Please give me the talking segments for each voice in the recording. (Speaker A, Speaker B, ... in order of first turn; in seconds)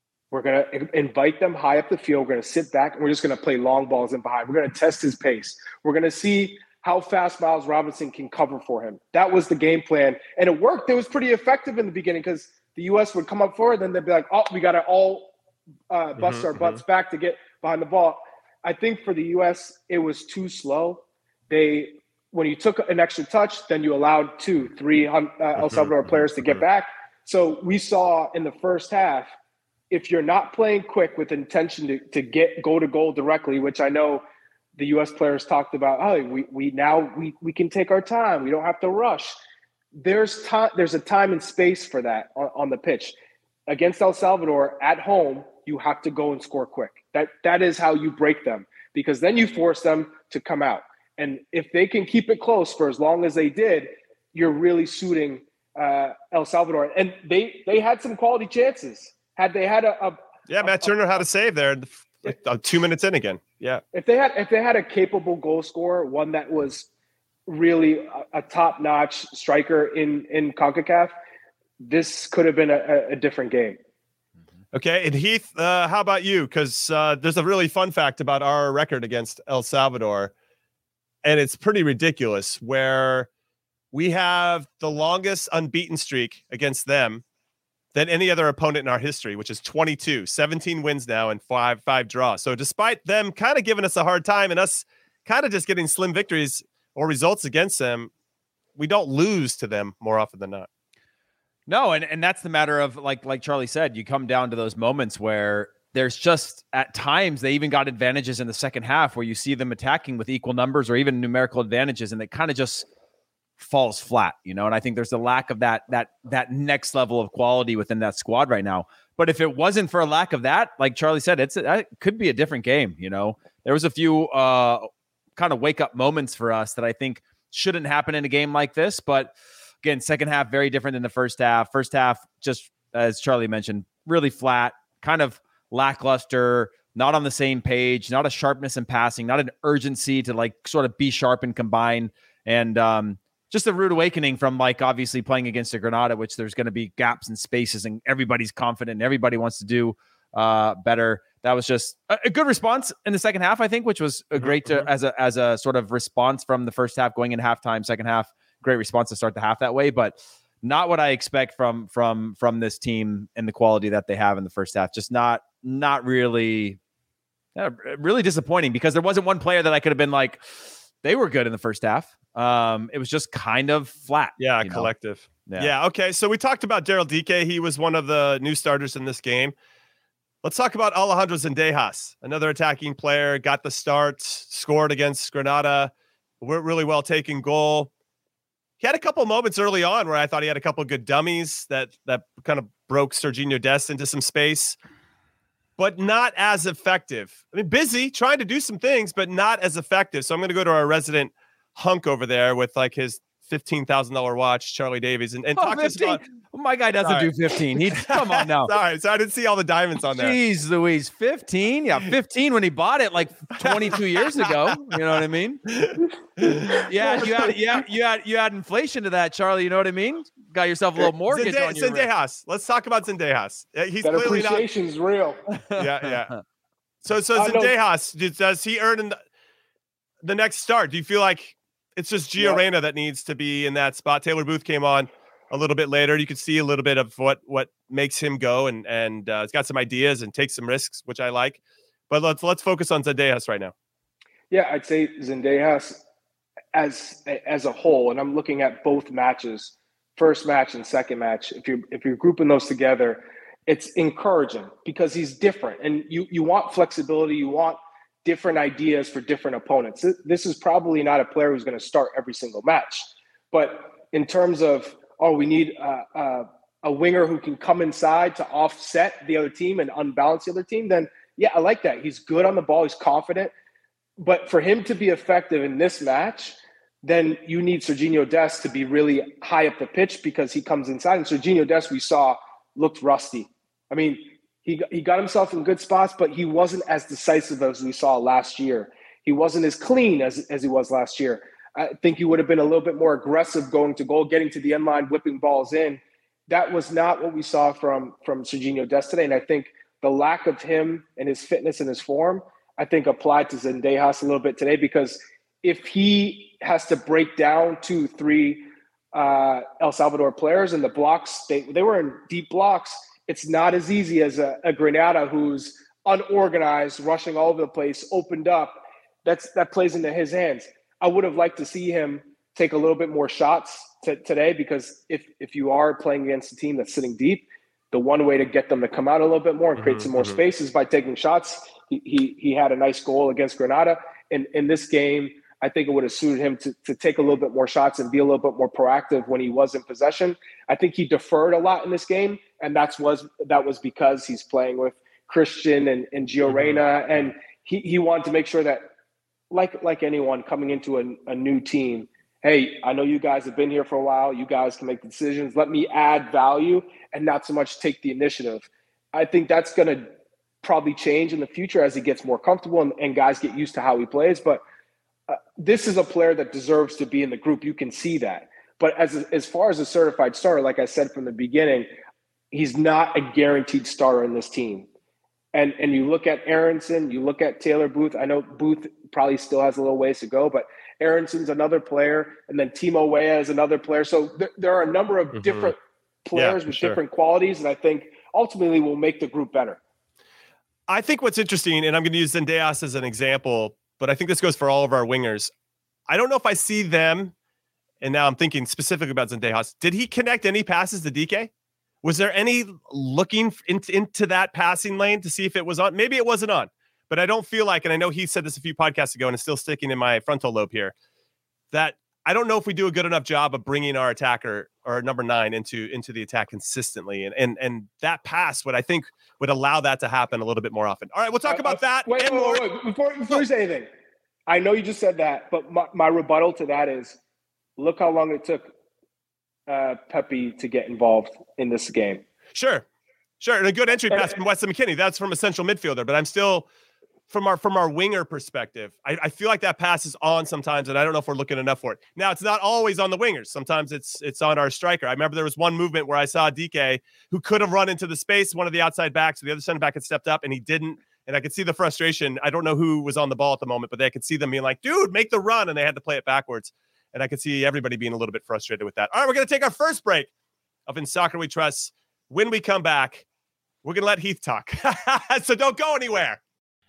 Speaker A: 0.3-15.3, 15.9-29.3, 29.9-34.2, 34.8-39.3, 39.9-43.1, 43.7-61.2, 63.9-66.9, 67.5-71.1, 71.8-73.8, 224.0-225.4, 227.3-227.7, 244.5-246.0, 246.7-273.5, 274.2-348.9, 349.5-360.1, 360.6-364.6, 365.3-371.9, 372.5-374.9, 375.5-389.8, 421.5-423.9, 424.5-427.2, 427.8-428.7, 429.7-432.2
Speaker B: 16.2-16.8, 25.6-25.9, 60.5-63.8, 74.7-80.3, 81.2-83.3, 83.9-87.2, 87.9-98.1, 98.8-100.7, 154.4-154.9, 174.4-179.5, 180.4-187.9, 188.8-194.8, 195.8-206.2, 207.0-210.4, 213.6-214.5, 215.7-216.9, 221.3-224.6, 225.8-226.3, 227.0-229.2, 230.2-243.7, 329.8-330.4, 346.5-346.8, 385.3-385.7, 386.3-387.0, 390.9-395.5, 396.1-397.3, 398.0-401.5, 402.0-410.9, 411.7-422.7, 432.5-432.8, 433.4-436.7, 437.3-460.3, 460.9-463.2, 463.8-466.4
Speaker C: 101.7-112.8, 113.6-129.3, 129.8-166.8, 167.6-174.9, 175.4-175.7, 205.6-208.7, 210.1-215.6, 216.9-222.1, 225.5-226.3